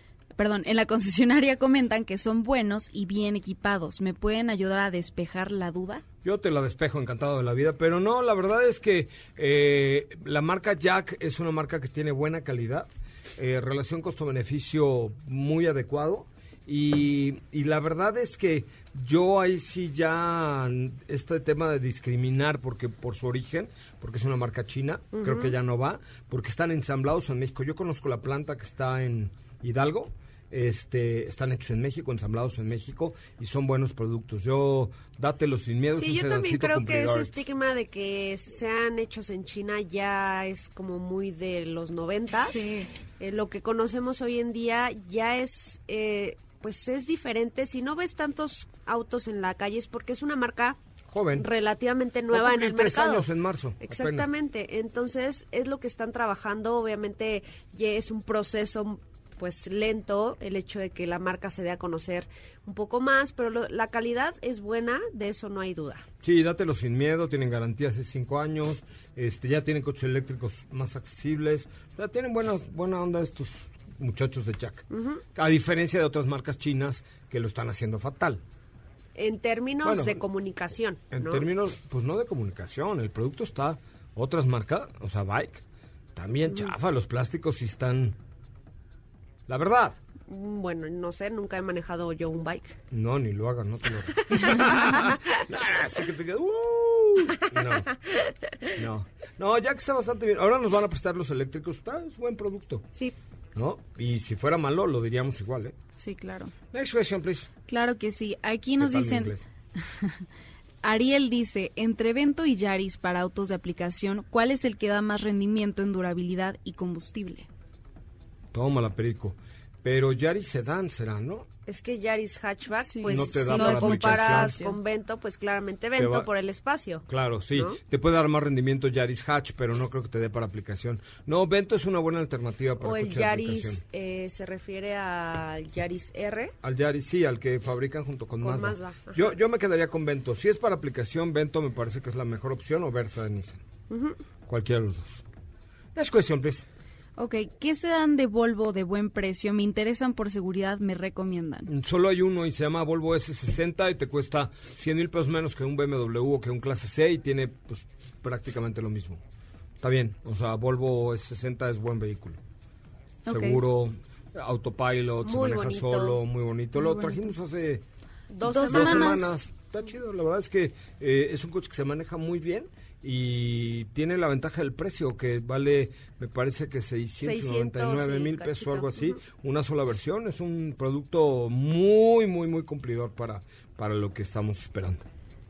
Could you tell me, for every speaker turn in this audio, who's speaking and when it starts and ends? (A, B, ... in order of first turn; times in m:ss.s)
0:00.4-0:06.0 A
0:06.2-0:37.4 B
0:25.1-0:25.5 C
0:36.0-0:42.6 C
0:42.5-0:42.9 A
0:43.2-0:50.8 C
0:51.1-0:51.4 B
0:51.4-0:53.3 C
0:52.3-0:54.3 B
0:53.8-1:06.0 C
1:06.2-1:18.4 B
1:14.9-1:15.2 C
1:19.2-1:21.4 C
1:19.8-1:20.2 B
1:21.1-1:25.6 B
1:26.2-1:28.2 B
1:29.5-1:30.0 B
1:30.3-1:32.8 C
1:32.9-1:37.9 B
1:34.3-1:35.2 C
1:38.8-1:42.9 B
1:43.5-1:45.8 B
1:46.0-1:46.5 A
1:46.7-1:47.5 B
1:47.7-1:49.3 A
1:48.8-1:49.4 B
1:49.8-1:50.2 A
1:50.8-1:57.5 A
1:58.5-2:01.5 B
2:01.7-2:07.8 C
2:02.9-2:04.8 A
2:03.0-2:04.6 B
2:06.0-2:06.3 B
2:07.1-2:13.8 B
2:12.8-2:16.5 C
2:16.6-2:23.6 B
2:18.4-2:19.3 C
2:23.9-2:24.2 C
2:24.5-2:25.2 B
2:25.9-2:26.7 B
2:27.2-2:31.7 A
2:31.7-2:39.2 B
2:39.8-2:42.4 B
2:43.2-2:43.6 A
2:43.2-2:47.8 B
2:45.2-2:46.2 C
2:46.8-2:47.3 A
2:48.3-2:49.3 C
2:48.4-2:49.3 A
2:48.6-3:05.0 B
2:57.2-2:59.2 C